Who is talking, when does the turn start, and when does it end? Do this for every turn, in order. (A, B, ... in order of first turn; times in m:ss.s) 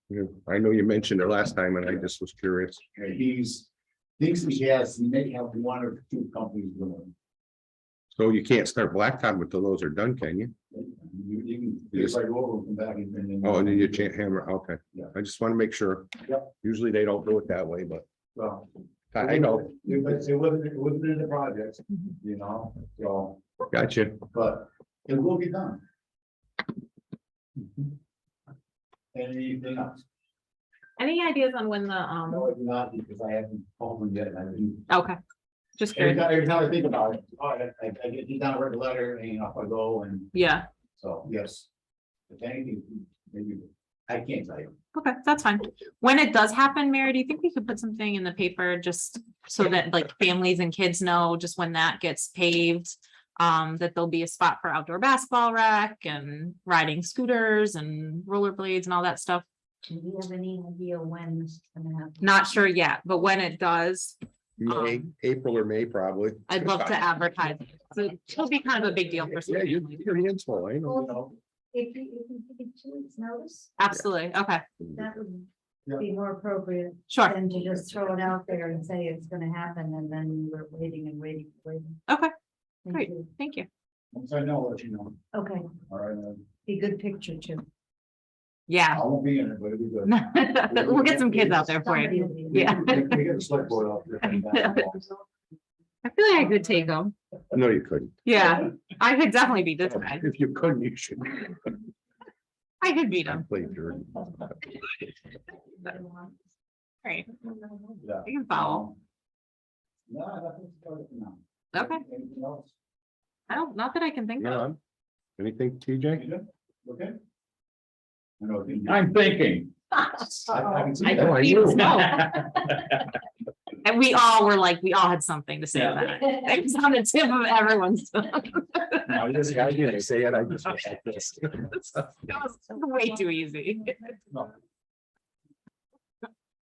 0:00.1-0:02.8 A
0:02.9-0:07.1 B
0:08.1-0:10.5 A
0:10.7-0:14.1 B
0:13.4-0:18.0 A
0:18.3-0:23.4 B
0:19.1-0:19.8 A
0:23.7-0:24.2 A
0:24.2-0:25.8 B
0:27.6-0:27.9 B
0:29.1-0:30.0 B
0:31.0-0:32.5 C
0:32.3-0:34.9 B
0:34.9-0:35.2 C
0:35.8-0:36.2 C
0:35.9-0:40.3 B
0:40.3-0:40.6 C
0:41.0-0:41.7 B
0:42.3-0:44.7 B
0:44.9-0:59.4 C
0:59.8-1:02.3 D
1:02.2-1:05.1 C
1:04.6-1:07.0 A
1:06.5-1:10.0 C
1:09.4-1:11.0 A
1:10.8-1:13.7 D
1:11.0-1:11.3 B
1:13.8-1:14.6 C
1:15.0-1:22.0 D
1:17.1-1:17.4 C
1:22.8-1:23.3 D
1:22.9-1:23.7 C
1:24.1-1:25.2 B
1:25.3-1:25.7 D
1:25.9-1:26.5 B
1:26.6-1:27.6 D
1:28.7-1:29.0 C
1:28.9-1:31.8 B
1:30.0-1:33.2 C
1:31.7-1:33.2 D
1:32.5-1:35.1 B
1:34.4-1:34.8 C
1:36.0-1:37.1 C
1:37.5-1:38.2 A
1:38.2-1:40.2 C
1:39.8-1:41.6 A
1:42.8-1:43.4 C
1:43.3-1:44.5 A
1:47.0-1:47.4 C
1:48.0-1:49.0 B
1:48.2-1:48.8 C
1:50.1-1:52.7 B
1:51.7-1:52.0 C
1:53.5-1:54.6 C
1:54.4-1:54.8 A
1:55.4-1:56.2 A
1:56.1-1:57.2 B
1:58.4-2:03.0 B
2:00.5-2:02.5 C
2:01.1-2:02.3 A
2:03.8-2:09.2 C
2:05.7-2:06.1 B
2:09.1-2:10.1 B
2:09.2-2:11.7 A
2:11.6-2:14.1 C